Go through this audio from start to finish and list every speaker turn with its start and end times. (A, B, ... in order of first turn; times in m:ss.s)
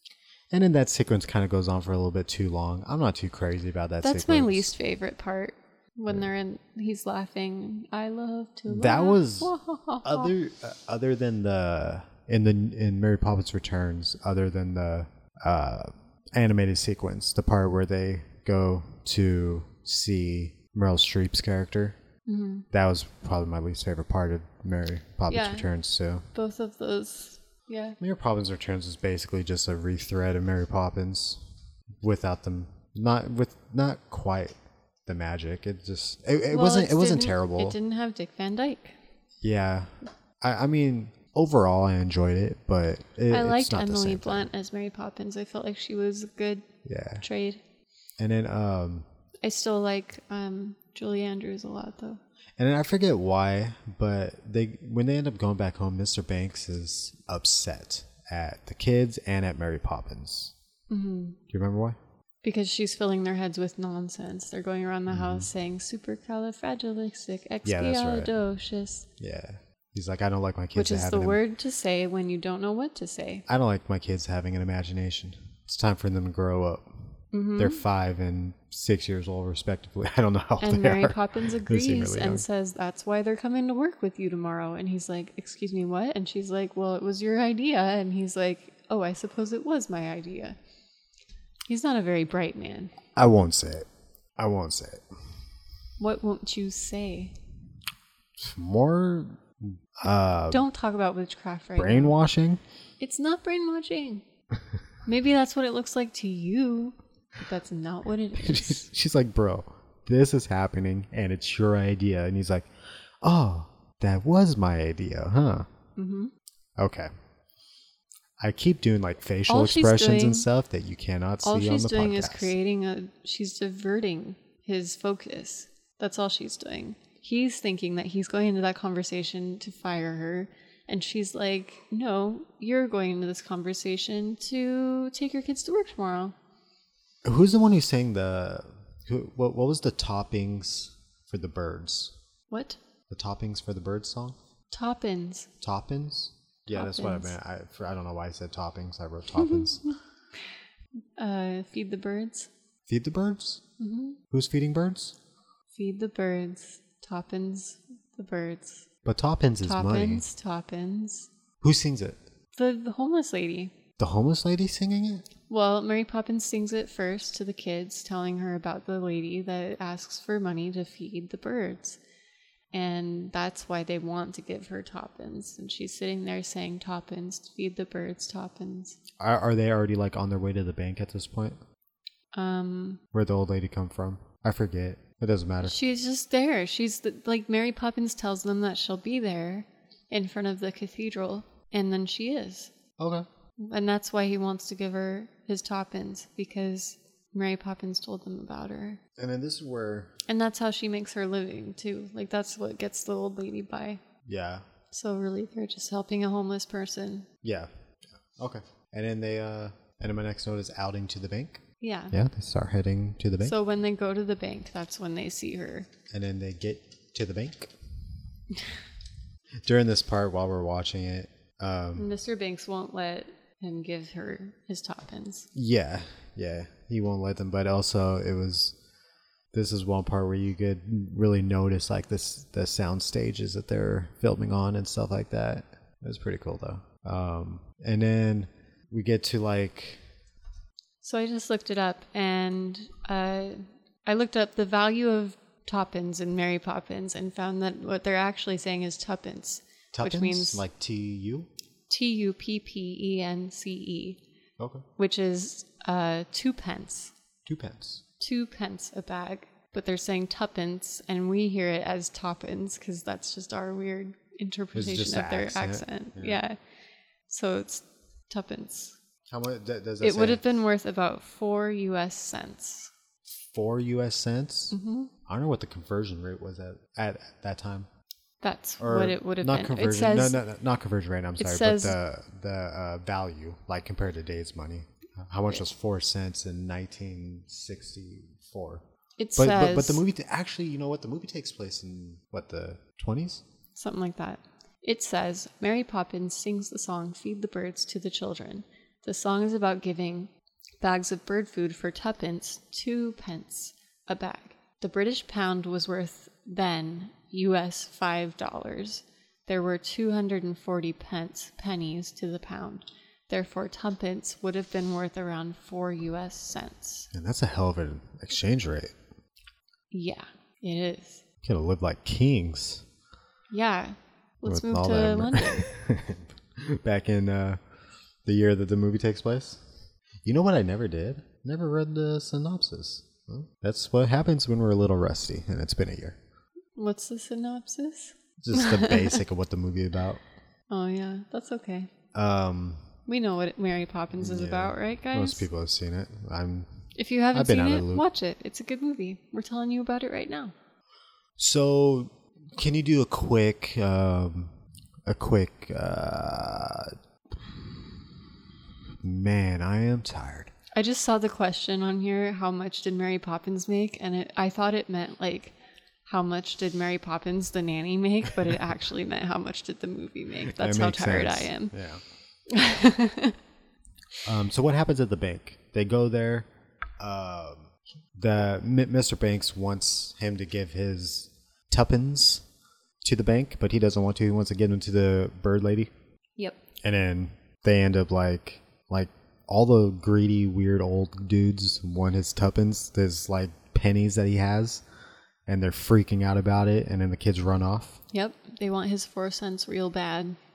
0:00.5-0:04.7 A
0:04.0-0:10.3 B
0:08.7-0:22.0 A
0:22.3-0:22.7 B
0:22.7-0:26.3 A
0:25.3-0:25.7 B
0:26.3-0:28.0 B
0:28.0-0:31.4 A
0:32.0-0:34.6 A
0:35.1-0:37.8 A
0:36.5-0:39.0 B
0:39.4-0:44.5 A
0:43.3-0:46.6 B
0:46.8-0:47.2 A
0:47.2-0:47.6 B
0:48.2-0:49.1 A
0:49.4-0:52.2 B
0:52.6-1:00.5 A
1:00.9-1:01.4 B
1:01.5-1:02.0 A
1:02.4-1:09.1 B
1:05.1-1:05.5 A
1:07.6-1:08.3 A
1:09.2-1:11.4 A
1:10.7-1:13.4 B
1:13.5-1:22.5 A
1:17.3-1:17.8 B
1:20.6-1:30.6 B
1:31.7-1:32.9 B
1:33.2-1:35.0 A
1:36.0-1:37.3 B
1:38.4-1:40.7 A
1:40.5-1:42.2 B
1:41.8-1:42.6 A
1:43.0-1:44.2 B
1:45.1-1:48.9 B
1:48.4-1:52.7 A
1:53.2-1:55.7 A
1:56.0-1:56.3 B
1:56.8-1:57.1 A
1:58.4-2:02.6 A
1:59.5-2:00.5 B
2:01.4-2:16.4 B
2:17.2-2:22.1 A
2:22.5-2:22.8 B
2:23.1-2:24.4 A
2:24.7-2:25.5 B
2:25.6-2:29.8 A
2:26.7-2:27.4 B
2:29.4-2:30.0 B
2:31.2-2:32.5 B
2:32.9-2:33.6 A
2:33.8-2:34.2 B
2:34.3-2:35.2 A
2:35.7-2:38.9 B
2:39.0-2:40.2 A
2:39.6-2:41.3 B
2:41.6-2:42.2 A
2:42.6-2:43.7 B
2:44.0-2:45.3 A
2:45.5-2:52.0 B
2:52.7-2:59.0 B
2:59.2-3:01.6 A
3:02.3-3:03.0 B
3:03.1-3:05.8 A
3:05.6-3:12.7 B
3:13.0-3:13.3 A
3:13.6-3:19.0 B
3:19.2-3:20.2 A
3:20.3-3:24.0 B
3:24.3-3:24.7 A
3:24.9-3:27.3 B
3:27.4-3:33.6 A
3:31.8-3:32.1 B
3:33.4-3:35.9 B
3:36.1-3:37.8 A
3:39.6-3:42.1 A
3:42.0-3:45.5 B
3:45.5-3:48.8 A
3:49.5-4:00.0 A
4:01.0-4:10.6 B
4:09.9-4:11.5 A
4:11.9-4:14.2 B
4:14.6-4:14.8 A
4:15.0-4:17.1 B
4:17.5-4:18.0 A
4:18.2-4:26.6 B
4:24.7-4:26.4 A
4:27.3-4:29.0 B
4:29.3-4:30.4 A
4:30.0-4:32.9 B
4:33.3-4:37.9 A
4:34.7-4:35.1 B
4:38.4-4:40.4 B
4:38.8-4:48.8 A
4:41.4-4:42.0 B
4:49.2-4:50.0 B
4:49.4-4:53.4 A
4:53.8-5:17.1 B
5:17.1-5:19.0 A
5:19.9-5:21.2 B
5:21.4-5:22.8 A
5:23.5-5:25.7 B
5:24.4-5:27.6 A
5:28.2-5:29.6 A
5:30.2-5:36.2 A
5:36.8-5:39.2 B
5:38.4-5:40.2 A
5:40.7-5:41.9 B
5:42.1-5:42.9 A
5:43.1-5:45.5 B
5:44.2-5:46.7 A
5:47.0-5:50.5 B
5:47.3-5:48.1 A
5:51.4-5:54.6 A
5:55.1-5:58.0 A
5:59.0-6:00.5 A
6:00.7-6:05.5 B
6:06.1-6:11.7 B
6:10.5-6:12.0 A
6:12.5-6:13.4 B
6:14.2-6:16.5 A
6:17.0-6:22.4 A
6:23.0-6:25.9 A
6:26.8-6:34.8 A
6:35.5-6:38.0 A
6:38.1-6:40.4 B